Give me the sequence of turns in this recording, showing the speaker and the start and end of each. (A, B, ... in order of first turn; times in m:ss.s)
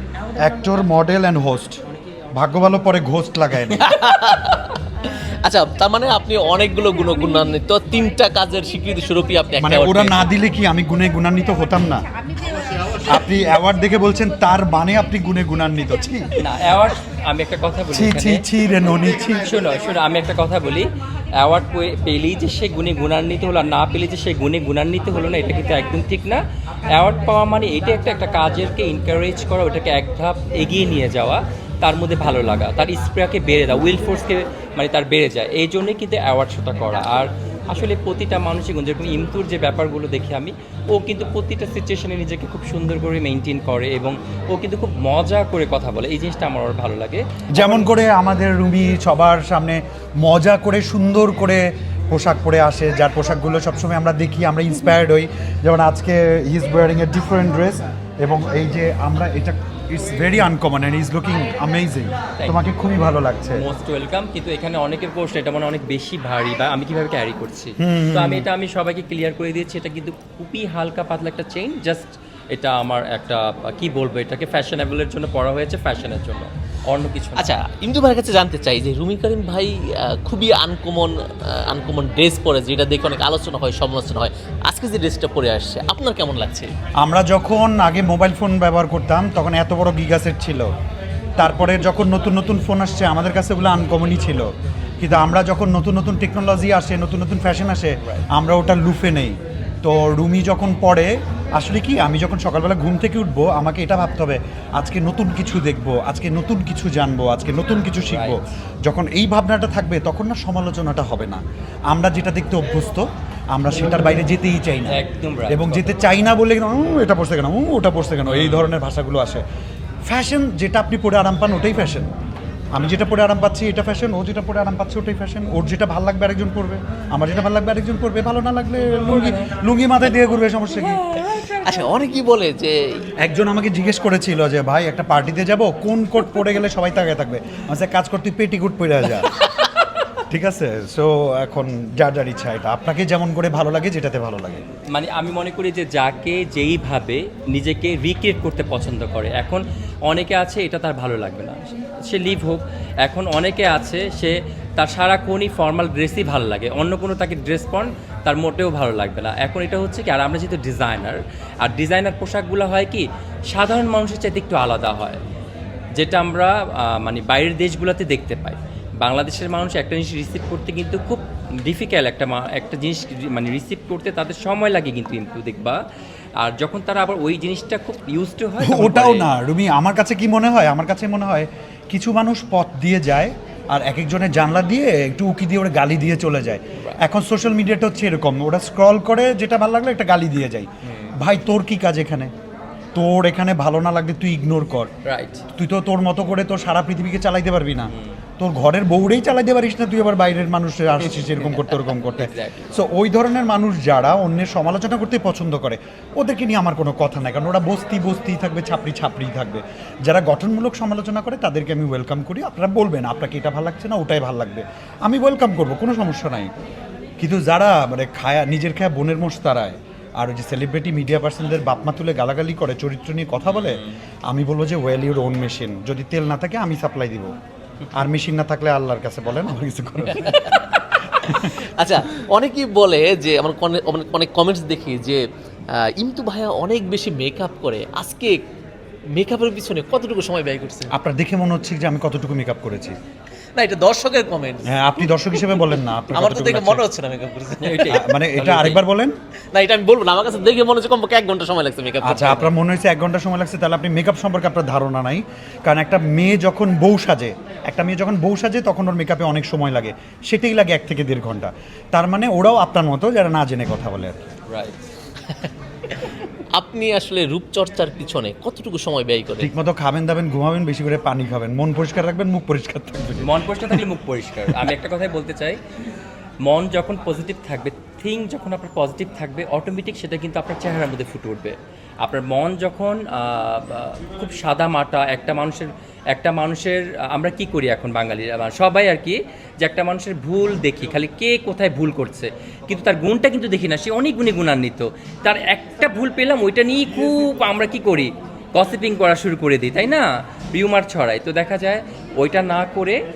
0:00.4-0:01.8 A
0:02.4-0:03.9 A
0:03.7-0:04.8 B
0:05.4-0:10.3 B
0:09.6-0:12.0 A
0:13.0-0:16.4 A
0:16.4-0:18.4 C
0:17.9-0:19.5 A
0:19.3-0:47.9 C
0:47.5-1:03.6 A
1:03.5-1:17.6 C
1:07.8-1:08.5 A
1:17.4-1:26.7 B
1:27.0-1:30.7 A
1:31.4-1:59.4 A
1:48.0-1:48.4 C
1:54.9-1:55.9 C
1:58.3-1:58.7 C
2:00.1-2:02.1 A
2:02.7-2:11.0 A
2:10.9-2:11.9 C
2:11.5-2:13.1 B
2:13.2-2:19.3 A
2:20.3-2:24.6 A
2:24.9-2:45.2 C
2:46.0-2:55.8 C
2:56.4-2:59.3 C
2:58.6-3:12.3 A
3:10.8-3:11.2 C
3:13.0-3:14.9 A
3:15.0-3:15.4 C
3:15.6-3:36.5 A
3:17.9-3:18.2 C
3:22.2-3:22.7 C
3:37.2-3:47.3 A
3:43.5-3:43.9 C
3:47.9-3:50.6 A
3:50.1-3:55.2 B
3:51.2-3:51.6 A
3:55.7-3:58.4 B
3:59.2-4:00.9 B
4:00.9-4:03.0 A
4:03.6-4:04.7 B
4:04.7-4:06.8 A
4:05.3-4:08.8 B
4:07.6-4:08.8 C
4:07.9-4:09.2 A
4:09.5-4:12.5 B
4:12.0-4:24.2 A
4:24.5-4:24.8 C
4:26.0-4:29.5 B
4:29.4-4:33.8 A
4:33.2-4:35.6 C
4:36.4-5:03.0 C